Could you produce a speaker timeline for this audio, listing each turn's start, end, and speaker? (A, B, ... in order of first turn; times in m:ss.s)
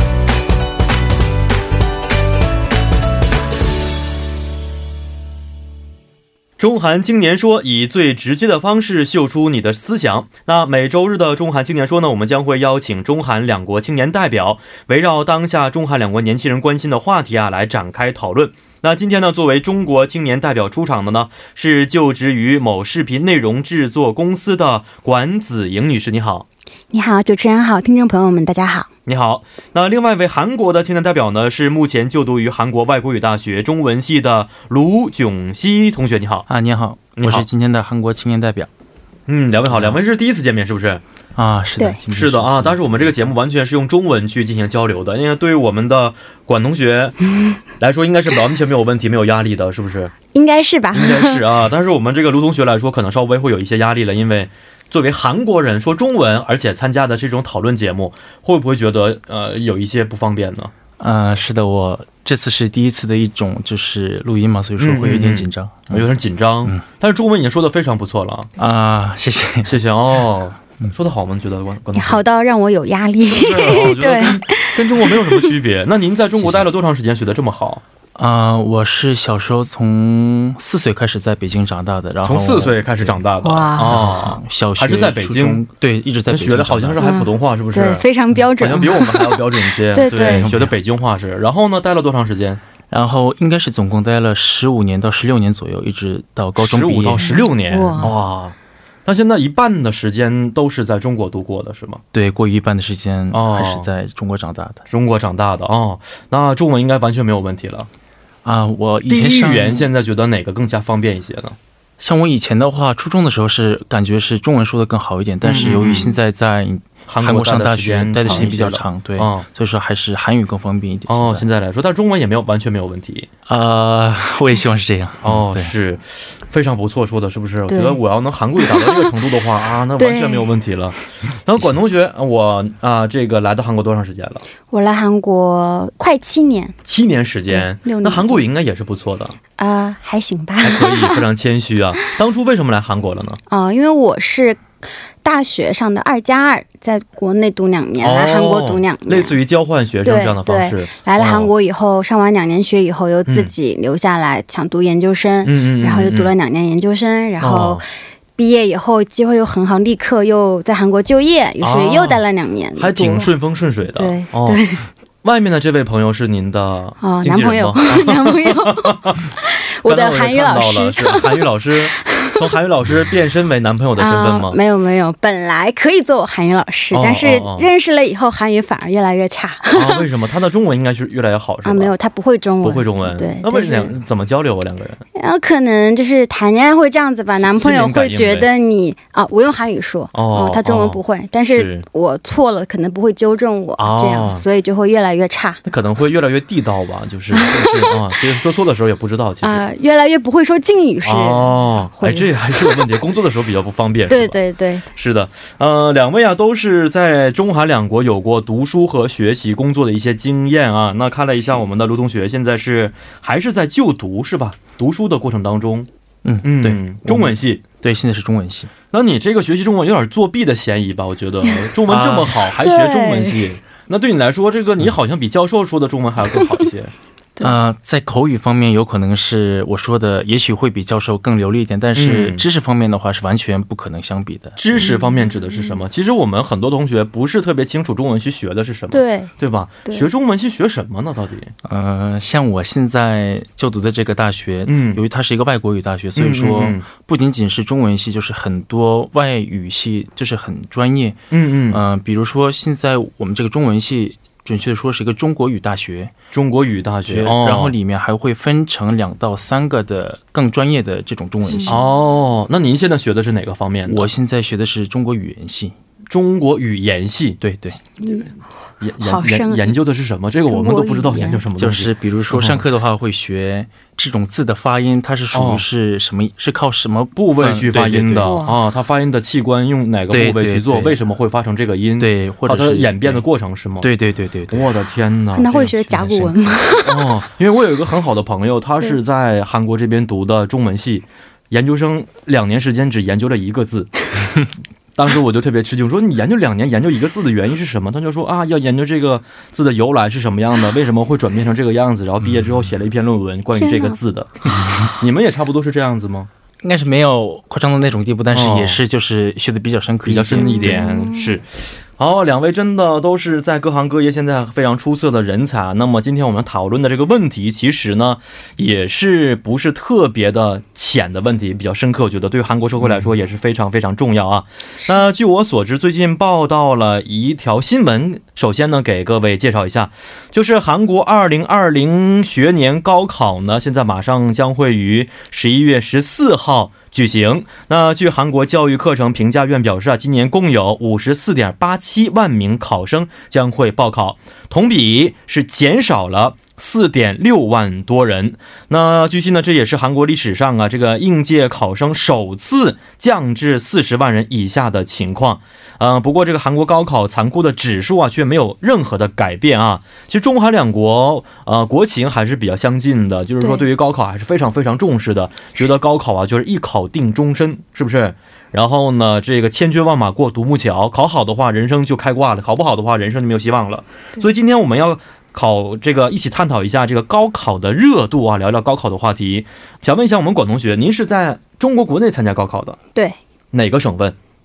0:06.6-0:26.5 A
0:26.9-0:28.9 B
0:29.1-0:36.5 A
0:36.5-0:38.7 C
0:37.2-0:37.5 A
0:39.3-0:41.0 A
0:39.7-0:40.0 C
0:41.4-0:43.1 C
0:42.1-0:47.2 A
0:47.8-0:50.1 A
0:50.3-0:51.4 B
0:50.9-1:00.7 A
1:01.0-1:06.1 C
1:04.8-1:08.5 A
1:08.6-1:09.8 C
1:09.7-1:12.2 A
1:11.9-1:15.5 B
1:13.3-1:17.8 A
1:16.4-1:16.6 C
1:18.2-1:23.2 C
1:22.2-1:25.6 A
1:23.4-1:24.0 B
1:23.9-1:27.0 C
1:26.3-1:28.0 A
1:27.0-1:30.5 B
1:28.6-1:32.6 A
1:30.1-1:30.8 C
1:32.9-1:37.3 C
1:36.6-1:38.6 A
1:37.2-1:38.1 B
1:39.1-1:42.0 A
1:42.1-1:44.8 C
1:43.3-1:43.9 A
1:44.9-1:47.9 A
1:48.4-1:49.9 C
1:49.1-1:51.6 A
1:52.0-2:01.5 C
1:55.4-1:56.2 A
1:57.1-1:59.5 A
2:01.1-2:03.3 A
2:03.5-2:05.7 C
2:05.2-2:14.4 A
2:07.7-2:08.0 B
2:08.6-2:09.1 B
2:10.0-2:10.5 B
2:14.7-2:16.7 B
2:16.8-2:19.4 A
2:17.5-2:18.4 B
2:19.6-2:21.2 B
2:20.6-2:23.4 A
2:23.5-2:24.6 B
2:25.2-2:29.4 B
2:28.0-2:31.5 A
2:30.0-2:37.8 B
2:33.3-2:33.5 A
2:35.4-2:36.3 A
2:37.4-2:37.8 A
2:38.4-2:43.3 B
2:41.6-2:42.2 A
2:42.8-2:44.6 A
2:43.9-2:44.8 B
2:45.2-2:49.3 A
2:47.0-2:52.5 B
2:49.8-2:54.6 A
2:54.0-3:00.1 B
2:56.9-2:57.7 A
2:59.7-3:01.9 A
3:01.6-3:03.9 B
3:02.6-3:05.0 A
3:05.2-3:15.6 B
3:07.4-3:08.5 A
3:10.1-3:11.9 A
3:13.8-3:14.4 A
3:15.6-3:19.6 A
3:17.3-3:18.0 B
3:19.4-3:22.9 B
3:21.0-3:24.4 A
3:24.1-3:24.8 B
3:24.9-3:35.9 A
3:36.2-3:38.7 C
3:36.4-3:37.6 A
3:38.9-3:46.9 A
3:41.4-3:41.7 B
3:41.9-3:42.4 C
3:42.5-3:43.4 B
3:47.4-3:54.6 C
3:52.0-3:52.4 A
3:54.6-4:01.5 A
3:54.8-3:55.6 B
3:58.9-3:59.3 B
4:01.6-4:16.1 C
4:04.7-4:05.0 A
4:06.2-4:06.8 A
4:11.3-4:11.8 A
4:16.3-4:17.7 A
4:17.1-4:21.8 C
4:21.5-4:21.8 B
4:21.6-4:24.1 A
4:23.9-4:25.8 C
4:26.1-4:27.4 A
4:27.4-4:27.8 C
4:28.0-4:28.3 B
4:28.8-4:32.6 A
4:29.0-4:29.8 B
4:30.5-4:31.4 B
4:31.6-4:38.3 C
4:35.3-4:35.6 A
4:37.2-4:43.9 A
4:38.2-4:38.6 B
4:40.1-4:41.0 C
4:42.0-4:43.2 C
4:43.8-4:44.7 C
4:44.5-4:46.2 A
4:45.4-4:47.1 B
4:46.8-4:54.4 A
4:55.0-5:06.3 A
5:03.6-5:04.0 B
5:06.6-5:10.8 C
5:08.3-5:08.8 A
5:10.0-5:11.5 A
5:10.4-5:11.3 B
5:12.0-6:22.8 A
6:03.4-6:03.7 B
6:23.5-6:24.2 A